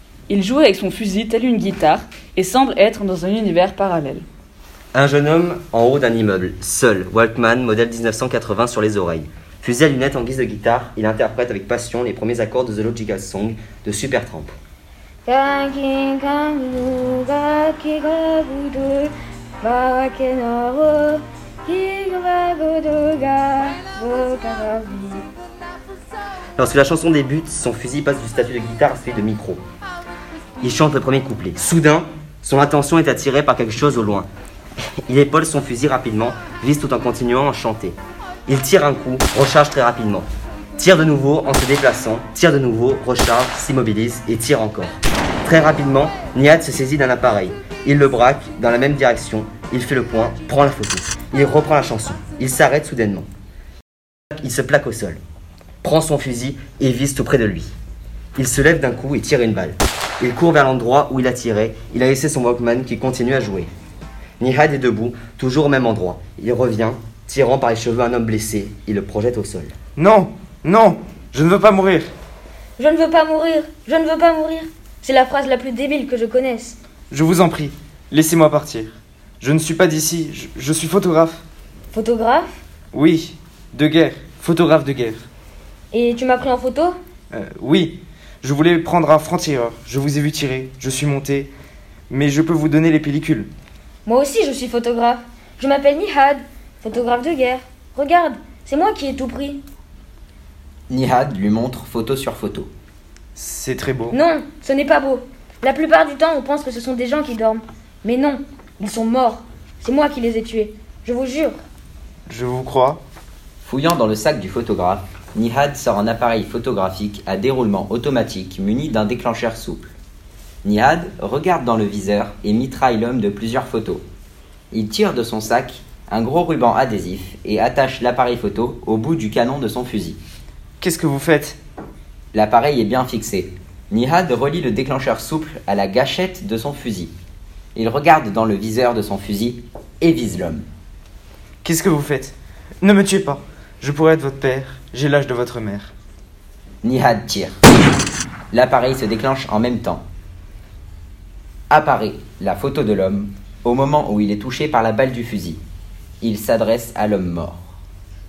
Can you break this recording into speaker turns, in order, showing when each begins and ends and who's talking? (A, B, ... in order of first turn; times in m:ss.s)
0:00.3-0:04.2 A
0:04.9-0:14.5 B
0:15.2-0:25.2 C
0:26.6-0:29.6 B
0:30.6-0:34.3 B
0:35.1-0:38.0 B
0:38.5-0:40.2 B
0:40.8-0:53.3 B
0:54.3-0:55.2 B
0:55.8-0:57.7 B
0:58.4-1:03.7 B
1:04.4-1:09.7 B
1:10.0-1:12.1 D
1:12.8-1:16.8 C
1:17.1-1:21.4 D
1:21.9-1:22.6 C
1:22.9-1:25.3 D
1:25.9-1:27.0 C
1:27.3-1:31.5 D
1:32.1-1:33.5 D
1:34.0-1:39.6 C
1:40.9-1:42.7 E
1:43.4-1:44.2 D
1:44.1-1:51.6 C
1:52.3-1:53.0 D
1:53.6-1:59.9 E
2:00.6-2:04.0 E
2:04.7-2:10.2 E
2:10.8-2:11.6 D
2:12.3-2:17.1 E
2:17.7-2:20.6 E
2:21.6-2:25.9 D
2:26.8-2:27.6 E
2:28.5-2:30.0 E
2:31.7-2:35.6 E
2:36.2-2:37.6 E